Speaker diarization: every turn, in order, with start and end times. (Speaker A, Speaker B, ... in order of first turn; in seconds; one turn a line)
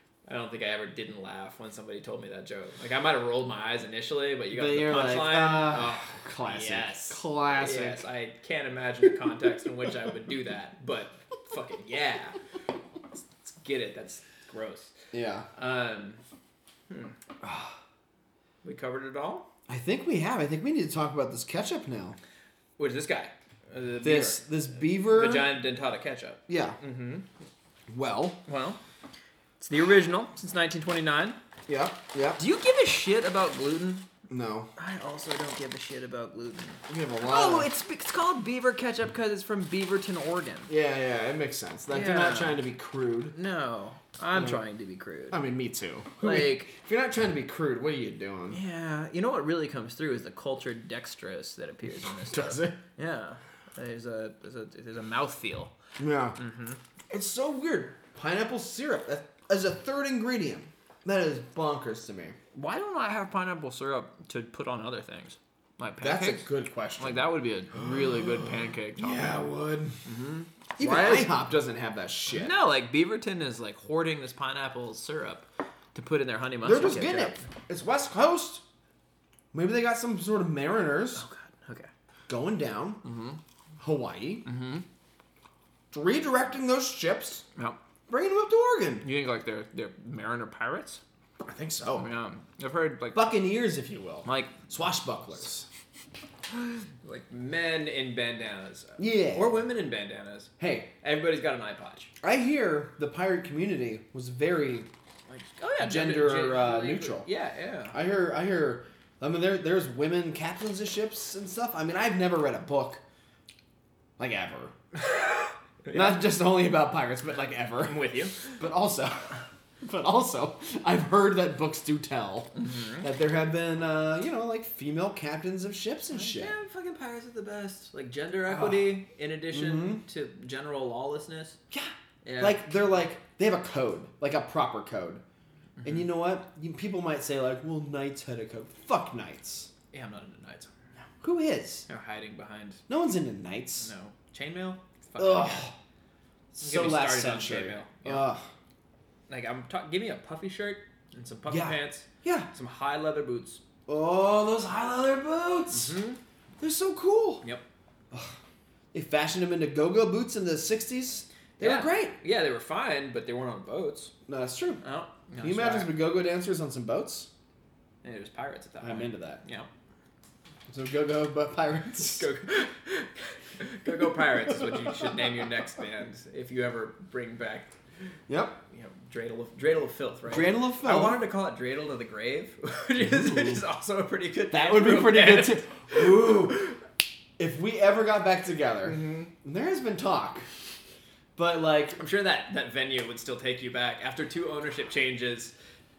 Speaker A: 0.3-12.4
Speaker B: 4.5-8.0
Speaker A: 13.4-14.9
Speaker B: 15.1-15.5
Speaker A: 15.6-16.2
Speaker A: 16.9-17.1
Speaker B: 17.4-17.8
Speaker A: 18.6-19.5
Speaker B: 19.7-22.2
Speaker A: 22.8-27.3
Speaker B: 24.0-25.6
Speaker B: 26.5-26.8
Speaker B: 27.9-28.4
Speaker A: 28.5-28.8
Speaker A: 29.6-31.4
Speaker B: 31.7-32.4
Speaker A: 32.4-34.1
Speaker B: 34.3-34.7
Speaker A: 34.8-40.7
Speaker B: 36.9-37.7
Speaker B: 40.7-43.4
Speaker A: 41.9-42.6
Speaker A: 43.3-45.4
Speaker B: 44.4-44.6
Speaker B: 45.3-48.6
Speaker A: 46.2-46.7
Speaker A: 48.5-55.8
Speaker B: 52.2-52.8
Speaker B: 56.0-56.4
Speaker A: 56.4-56.8
Speaker B: 57.1-62.4
Speaker A: 62.5-66.5
Speaker B: 66.0-70.0
Speaker A: 67.0-69.4
Speaker A: 70.0-71.3
Speaker B: 70.8-72.5
Speaker A: 72.3-77.5
Speaker B: 76.6-78.6
Speaker B: 79.5-81.2
Speaker A: 81.2-81.9
Speaker B: 82.3-83.0
Speaker A: 83.0-83.4
Speaker B: 83.8-84.5
Speaker A: 84.5-84.8
Speaker B: 85.9-87.5
Speaker B: 88.1-89.1
Speaker A: 89.0-91.0
Speaker B: 91.4-92.1
Speaker A: 91.9-93.3
Speaker B: 93.1-95.7
Speaker A: 94.2-94.6
Speaker A: 96.6-102.1
Speaker B: 99.0-99.6
Speaker B: 100.6-100.9
Speaker B: 102.2-104.9
Speaker A: 105.3-108.0
Speaker B: 105.8-107.3
Speaker B: 107.9-113.0
Speaker B: 114.2-114.8
Speaker A: 115.8-116.3
Speaker B: 115.9-126.6
Speaker A: 117.8-118.5
Speaker A: 122.6-123.0
Speaker A: 126.1-131.6
Speaker B: 128.5-129.0
Speaker B: 129.5-130.0
Speaker B: 131.7-135.2
Speaker A: 132.2-132.6
Speaker A: 135.8-136.1
Speaker B: 135.8-139.7
Speaker A: 139.9-140.7
Speaker B: 141.2-141.9
Speaker A: 141.9-142.8
Speaker B: 142.9-143.9
Speaker A: 143.8-145.7
Speaker B: 145.2-145.8
Speaker B: 146.5-148.5
Speaker A: 146.6-148.3
Speaker A: 149.3-153.6
Speaker B: 151.5-152.5
Speaker B: 153.9-156.0
Speaker A: 155.7-156.2
Speaker B: 156.6-157.4
Speaker B: 158.1-158.4
Speaker B: 158.9-162.2
Speaker A: 161.6-164.1
Speaker B: 164.3-164.8
Speaker A: 164.8-166.0
Speaker B: 165.4-167.3
Speaker A: 168.0-169.7
Speaker B: 168.8-169.4
Speaker B: 170.7-172.3
Speaker A: 172.1-177.8
Speaker B: 178.3-178.6
Speaker A: 178.7-186.8
Speaker B: 180.3-181.2
Speaker B: 183.1-183.6
Speaker B: 184.5-186.8
Speaker B: 187.4-190.5
Speaker A: 188.8-189.3
Speaker B: 191.4-192.0
Speaker A: 192.0-195.5